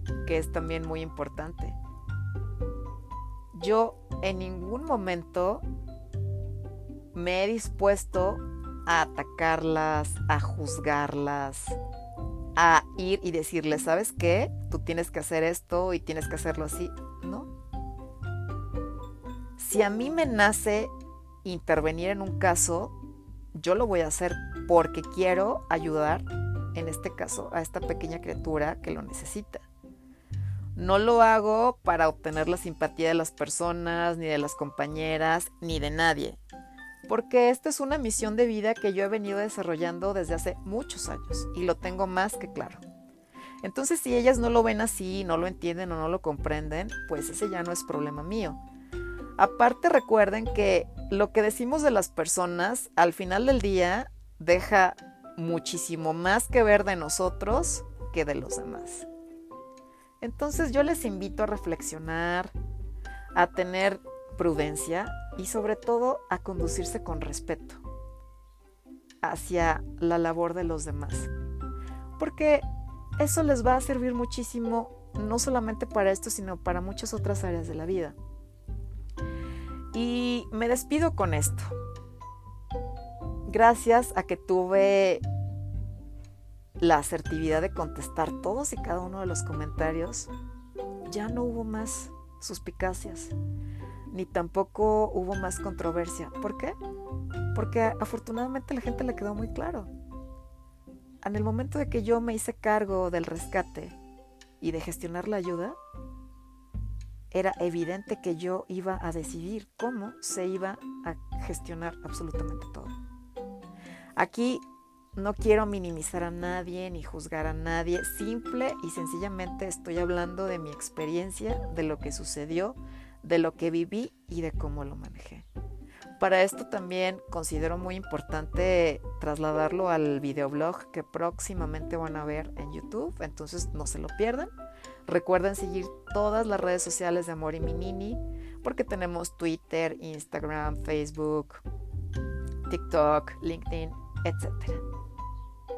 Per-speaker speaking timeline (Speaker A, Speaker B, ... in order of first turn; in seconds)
Speaker A: 0.2-1.8, 3.5-5.6, 7.1-11.8, 12.6-17.5, 19.6-20.9, 21.4-22.9, 23.6-29.6, 30.8-36.4, 37.1-42.8, 43.6-48.6, 49.4-59.1, 60.2-62.5, 63.4-67.8, 69.2-71.3, 72.2-72.7, 73.2-78.2, 79.9-81.7, 83.5-85.2, 86.8-90.3, 91.1-93.3, 94.1-96.8, 97.5-99.9, 101.2-104.0, 104.6-105.8, 107.3-112.9, 114.2-114.6, 115.2-125.4, 126.2-134.5, 135.1-141.6, 142.7-144.8